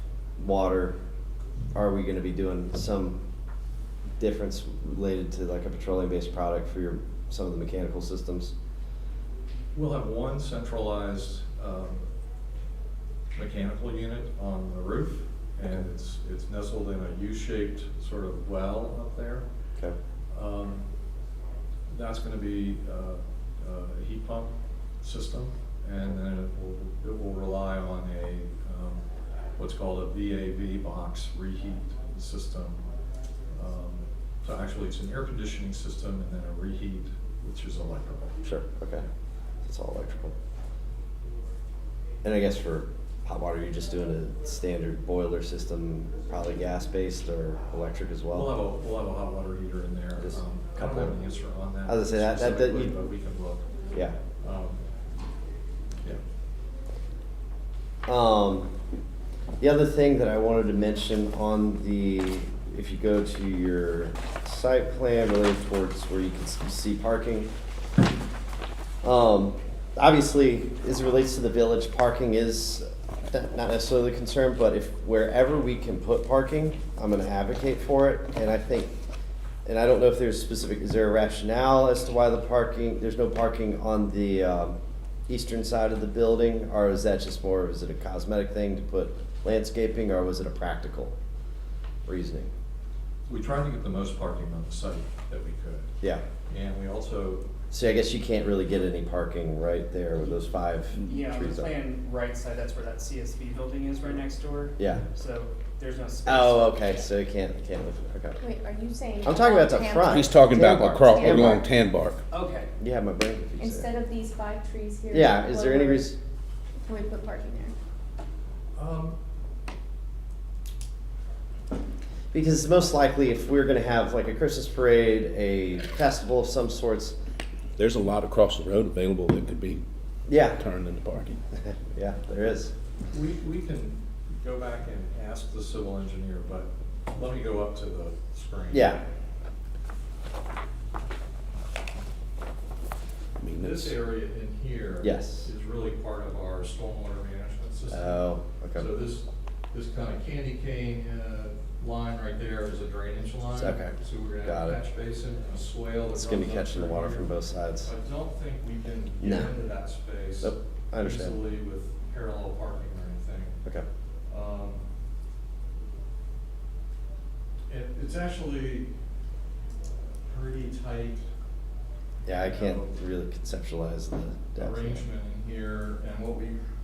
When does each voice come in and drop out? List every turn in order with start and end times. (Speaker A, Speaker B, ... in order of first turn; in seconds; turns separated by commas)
Speaker A: 0.4-1.0, Speaker A: 1.7-3.2, Speaker A: 4.2-8.5, Speaker B: 9.7-12.0, Speaker B: 13.3-19.4, Speaker B: 20.3-20.8, Speaker B: 21.9-29.0, Speaker B: 29.6-32.8, Speaker B: 33.5-38.3, Speaker A: 38.4-39.0, Speaker A: 39.6-40.3, Speaker A: 42.2-48.6, Speaker B: 48.3-53.7, Speaker A: 50.2-51.1, Speaker A: 51.9-52.9, Speaker A: 53.9-54.2, Speaker B: 54.4-54.8, Speaker A: 58.0-58.7, Speaker A: 59.6-67.5, Speaker A: 69.0-78.9, Speaker A: 79.6-84.8, Speaker A: 85.3-91.1, Speaker A: 92.0-92.5, Speaker B: 93.3-95.9, Speaker B: 96.5-97.5, Speaker A: 97.7-101.7, Speaker C: 101.0-106.9, Speaker A: 104.8-105.0, Speaker A: 106.2-108.4, Speaker D: 108.4-111.6, Speaker A: 109.2-111.6, Speaker E: 110.0-112.2, Speaker C: 112.3-112.7, Speaker A: 112.8-113.9, Speaker D: 113.6-116.1, Speaker A: 115.1-116.2, Speaker D: 116.8-117.7, Speaker B: 118.8-119.2, Speaker A: 122.3-127.2, Speaker E: 127.8-129.8, Speaker A: 130.3-130.6, Speaker E: 130.5-131.4, Speaker A: 131.9-132.7, Speaker B: 133.1-139.0, Speaker A: 138.7-139.0, Speaker E: 143.4-143.9, Speaker B: 143.6-157.3, Speaker A: 145.0-145.5, Speaker A: 147.9-148.9, Speaker A: 153.5-154.8, Speaker A: 156.1-157.9, Speaker B: 157.8-163.6, Speaker A: 159.2-159.5, Speaker A: 160.4-161.4, Speaker B: 164.3-164.8, Speaker B: 167.7-168.9, Speaker B: 170.2-171.2, Speaker A: 172.2-175.0, Speaker B: 172.4-172.9, Speaker B: 174.6-176.6